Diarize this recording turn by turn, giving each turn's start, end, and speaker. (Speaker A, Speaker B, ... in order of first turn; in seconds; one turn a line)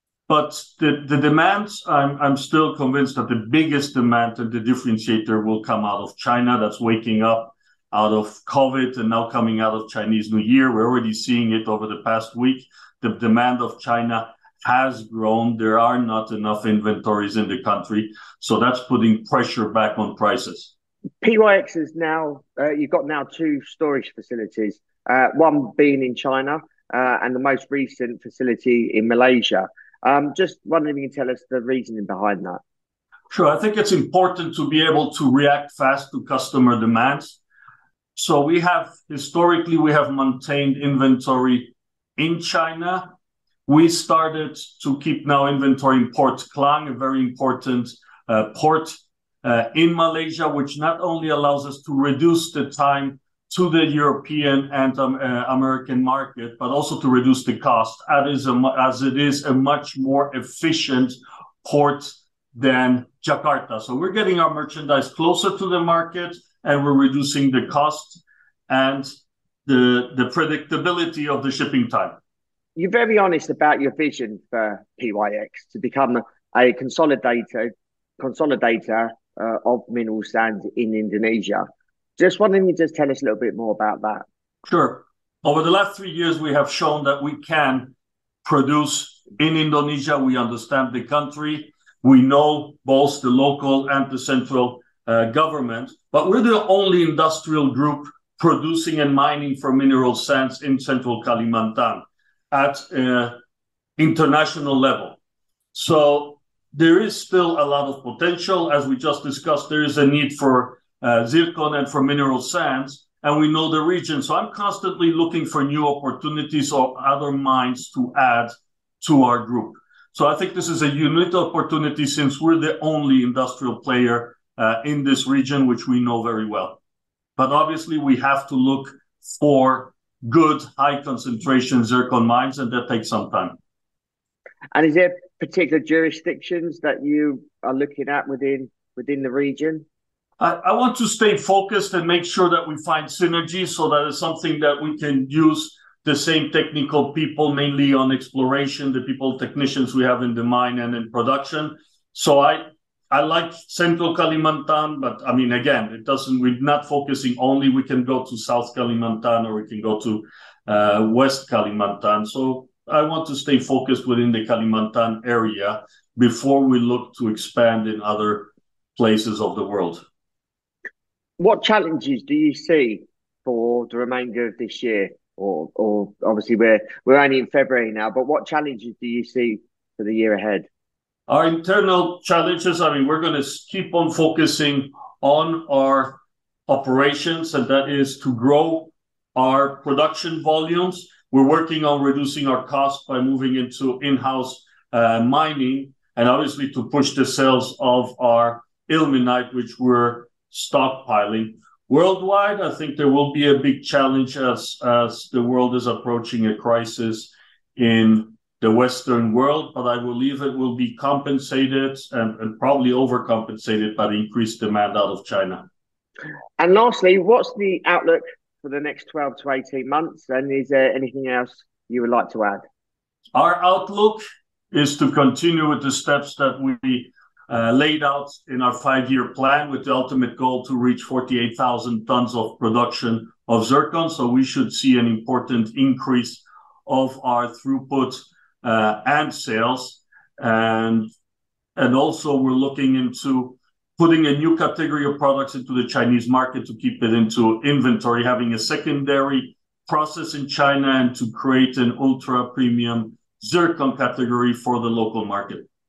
Speaker A: 0.3-20.7
Speaker B: 21.2-32.6
Speaker A: 33.3-37.4
Speaker A: 38.2-43.1
Speaker A: 43.7-69.1
Speaker A: 69.7-72.2
Speaker B: 72.8-81.6
Speaker B: 82.2-84.2
Speaker A: 84.7-87.9
Speaker A: 88.4-103.4
Speaker A: 104.0-105.2
Speaker A: 105.7-126.8
Speaker A: 127.4-133.6
Speaker B: 134.7-139.8
Speaker A: 140.4-170.0
Speaker B: 171.4-180.7
Speaker A: 181.3-215.7
Speaker B: 216.6-222.6
Speaker A: 223.3-241.1
Speaker A: 241.8-255.7